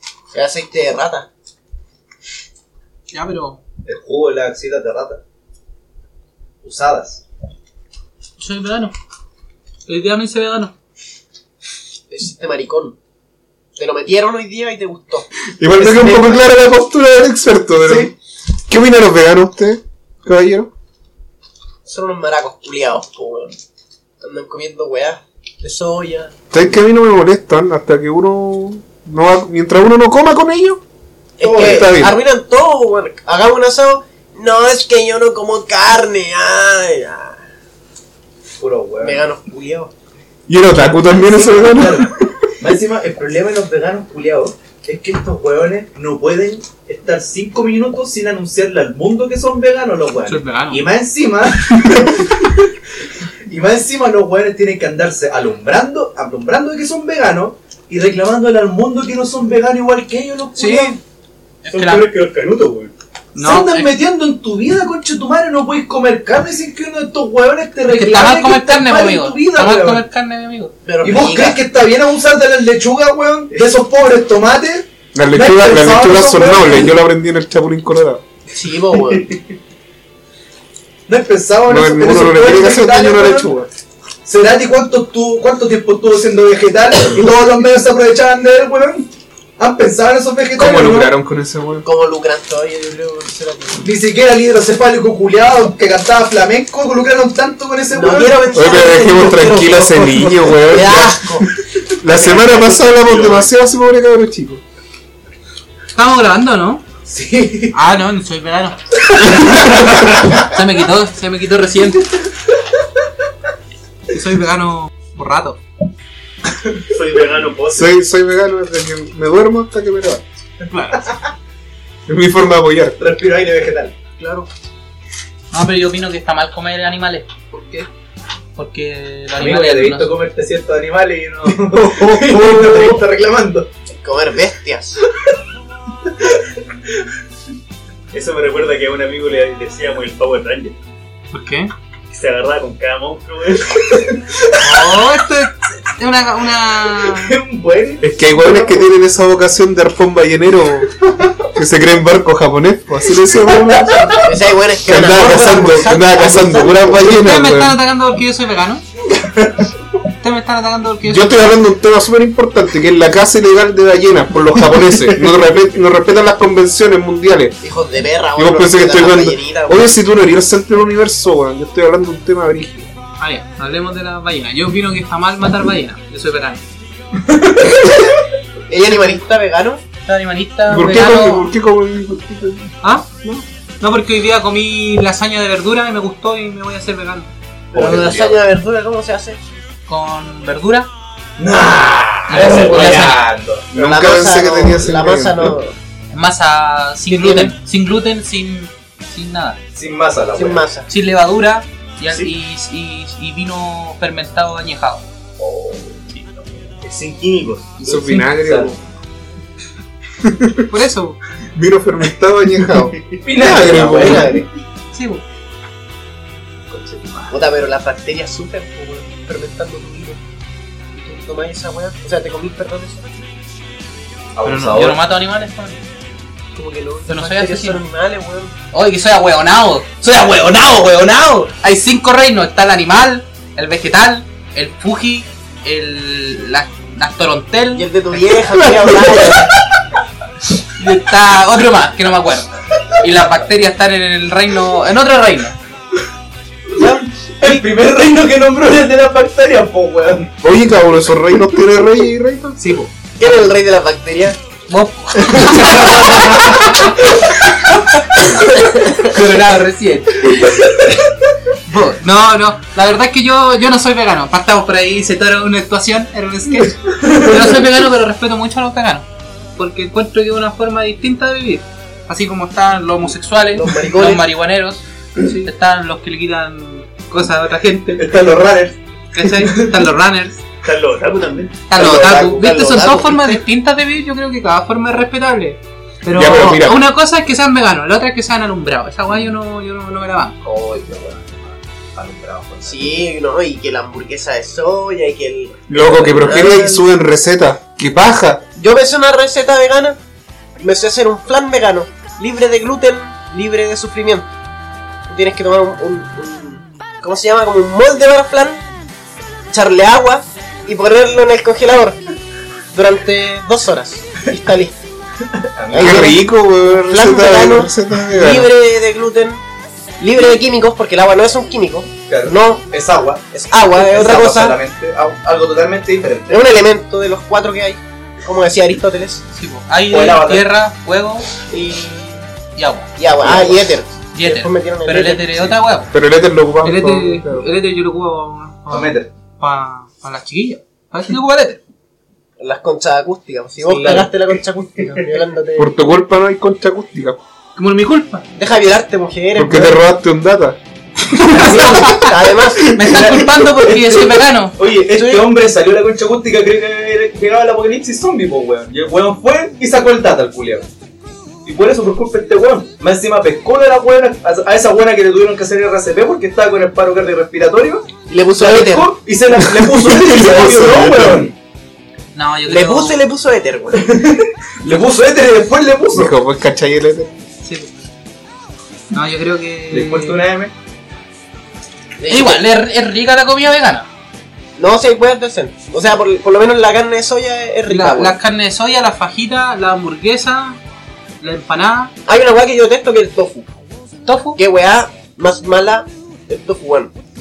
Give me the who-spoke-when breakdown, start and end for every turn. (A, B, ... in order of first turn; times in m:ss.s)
0:00.3-0:01.3 A
0:03.1-0:03.6 B
0:03.8-0:05.2 C
0:06.6-0:07.2 C
0:08.4-0:08.9 B
0:09.9-0:10.7 B
0:12.1-0:13.0 A
0:13.8-0:16.5 A
0:15.6-0:18.1 D
0:17.8-0:18.1 C
0:18.7-0:20.7 D
0:21.8-0:23.5 A
0:24.2-0:26.4 A
0:26.5-0:30.8 D
0:31.4-0:37.4 A
0:31.4-0:31.9 C
0:31.5-0:32.2 D
0:38.6-0:39.2 C
0:39.0-0:39.9 A
0:40.5-0:42.4 D
0:41.1-0:52.5 C
0:50.3-0:50.8 B
0:53.5-1:01.0 C
1:00.6-1:01.0 B
1:01.6-1:02.1 B
1:01.7-1:02.9 E
1:03.3-1:04.0 B
1:03.4-1:10.0 C
1:07.9-1:10.7 B
1:10.8-1:11.6 A
1:11.0-1:17.0 C
1:15.1-1:18.2 D
1:18.5-1:19.3 A
1:21.1-1:23.5 C
1:21.7-1:23.7 D
1:24.2-1:29.1 C
1:29.6-1:31.1 C
1:30.6-1:31.8 D
1:31.8-1:33.9 A
1:33.8-1:38.5 C
1:37.9-1:41.5 A
1:38.5-1:44.6 D
1:42.1-1:43.5 E
1:45.9-1:46.8 B
1:47.1-1:47.7 C
1:47.7-1:49.7 B
1:50.3-1:52.1 B
1:54.1-1:55.6 B
1:56.9-1:57.9 E
1:57.7-2:00.3 D
2:00.7-2:01.1 B
2:02.1-2:03.0 D
2:03.0-2:03.9 C
2:04.2-2:04.5 A
2:05.5-2:07.4 B
2:07.5-2:07.8 A
2:08.6-2:10.1 B
2:09.4-2:13.7 C
2:14.0-2:15.0 A
2:18.1-2:20.8 E
2:21.3-2:21.7 B
2:22.1-2:24.1 E
2:24.6-2:27.3 B
2:27.2-2:28.1 E
2:28.0-2:30.9 D
2:31.5-2:34.2 D
2:34.2-2:37.1 A
2:34.8-2:37.8 D
2:37.1-2:38.8 B
2:40.2-2:41.5 B
2:41.0-2:47.6 D
2:47.6-2:50.0 A
2:48.3-2:52.9 D
2:53.2-2:56.6 B
2:57.3-2:57.8 C
2:58.7-2:59.8 A
3:00.0-3:01.5 B
3:00.7-3:03.4 D
3:02.8-3:03.1 B
3:03.8-3:07.3 B
3:07.7-3:08.4 C
3:07.7-3:09.4 A
3:09.9-3:10.9 B
3:11.4-3:13.7 C
3:12.3-3:13.2 B
3:13.7-3:15.6 D
3:13.7-3:15.8 A
3:16.1-3:19.6 B
3:17.1-3:17.5 A
3:19.7-3:20.6 C
3:20.3-3:20.9 A
3:20.9-3:25.0 B
3:25.4-3:26.0 C
3:26.8-3:27.8 E
3:27.8-3:28.8 D
3:28.3-3:28.8 C
3:30.2-3:30.7 D
3:30.7-3:31.2 B
3:31.5-3:34.4 D
3:33.2-3:34.4 C
3:33.4-3:34.4 A
3:34.9-3:35.2 B
3:36.7-3:37.4 C
3:37.3-3:40.2 A
3:40.9-3:43.0 A
3:44.3-3:45.0 C
3:44.4-3:45.8 B
3:46.5-3:48.5 A
3:47.1-3:47.8 B
3:48.7-3:57.8 B
3:50.2-3:51.3 C
3:57.7-3:59.6 A
4:00.7-4:05.6 B
4:06.7-4:07.6 A
4:07.4-4:10.3 C
4:10.4-4:12.6 D
4:13.2-4:14.4 A
4:14.7-4:16.5 B
4:15.6-4:16.7 A
4:18.2-4:20.8 B
4:21.6-4:38.0 B
4:27.0-4:27.3 C
4:33.5-4:34.3 A
4:38.0-4:38.8 C
4:39.1-4:40.4 B
4:40.6-4:41.6 E
4:41.7-4:50.4 B
4:41.8-4:43.4 A
4:41.8-4:42.2 C
4:46.1-4:46.8 D
4:50.4-4:53.1 C
4:52.6-4:56.8 A
4:55.7-4:58.4 D
4:58.6-5:00.0 A
5:00.6-5:04.3 A
5:05.1-5:08.6 A
5:09.5-5:12.0 A
5:12.7-5:14.7 A
5:15.5-5:16.2 C
5:15.7-5:19.4 A
5:15.8-5:18.5 D
5:20.0-5:22.6 A
5:22.1-5:26.5 C
5:23.3-5:24.6 A
5:26.3-5:29.2 A
5:29.3-5:31.3 B
5:29.9-5:30.5 C
5:31.5-5:32.3 A
5:32.5-5:32.9 B
5:33.0-5:35.5 A
5:33.2-5:33.7 C
5:34.1-5:35.9 B
5:35.9-5:37.5 D
5:36.6-5:41.6 B
5:38.7-5:39.1 C
5:42.4-5:45.7 A
5:43.6-5:44.1 C
5:45.6-5:47.2 D
5:47.6-5:48.2 B
5:48.3-5:49.8 A
5:49.3-5:50.6 D
5:51.1-5:52.1 B
5:51.3-5:53.1 A
5:52.7-5:54.5 B
5:52.8-6:00.7 C
5:54.9-5:55.3 A
6:01.4-6:07.8 C
6:08.1-6:08.9 A
6:08.4-6:11.3 C
6:09.7-6:11.3 D
6:12.1-6:13.0 B
6:12.4-6:14.0 A
6:13.7-6:16.1 C
6:15.9-6:17.1 D
6:17.4-6:17.7 B
6:18.9-6:20.2 B
6:19.7-6:20.5 C
6:22.0-6:22.4 A
6:22.1-6:23.9 B
6:24.6-6:28.2 A
6:27.7-6:30.6 B
6:31.2-6:31.9 B
6:32.0-6:33.5 A
6:34.0-6:34.4 B
6:34.4-6:36.9 A